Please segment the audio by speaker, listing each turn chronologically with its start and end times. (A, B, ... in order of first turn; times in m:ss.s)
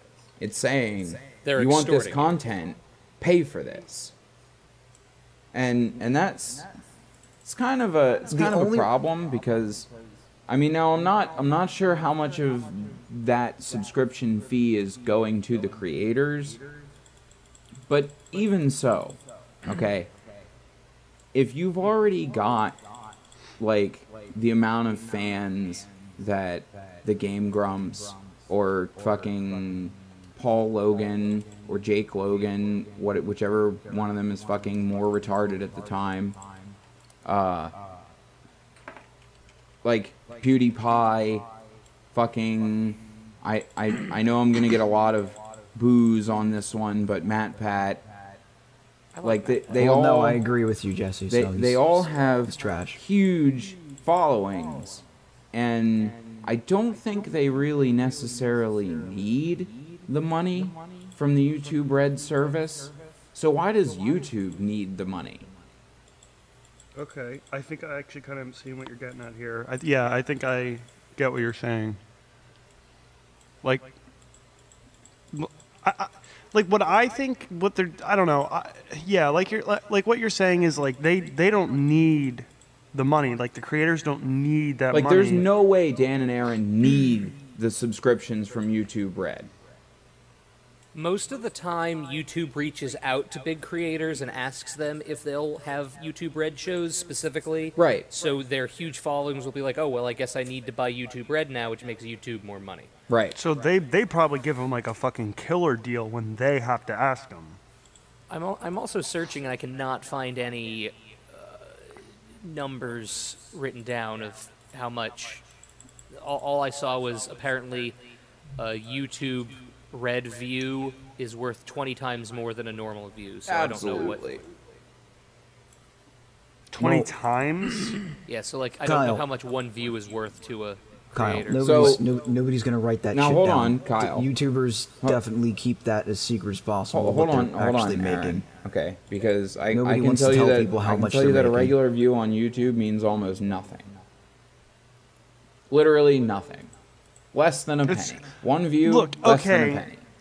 0:00.4-0:04.1 A
0:01.4-0:02.3 B
0:05.5-0:06.7 A
0:07.4-0:09.9 A
0:08.3-0:08.9 C
0:10.5-0:16.6 A
0:17.9-0:20.1 A
0:21.3-0:22.8 A
0:23.6-0:36.4 A
0:37.2-0:37.8 A
0:39.8-0:41.5 A
0:42.1-0:48.0 A
0:49.1-0:49.8 B
0:49.2-0:50.4 A
0:49.7-0:53.0 C
0:51.3-1:05.5 A
1:07.0-1:12.0 D
1:13.6-1:13.9 D
1:15.3-1:25.5 D
1:24.9-1:29.5 A
1:30.9-1:42.9 B
1:37.8-1:38.1 A
1:43.1-1:43.4 A
1:43.4-1:47.6 D
1:48.3-1:55.4 B
1:56.1-1:58.0 B
1:58.6-2:04.2 B
2:03.5-2:04.4 A
2:06.7-2:08.0 D
2:06.8-2:07.1 C
2:08.2-2:11.9 B
2:08.8-2:09.2 C
2:11.1-2:18.4 C
2:11.6-2:12.0 A
2:13.1-2:14.3 A
2:16.9-2:23.9 A
2:19.7-2:21.8 C
2:25.7-2:26.7 A
2:27.3-2:30.0 A
2:27.9-2:28.2 D
2:28.8-2:29.8 D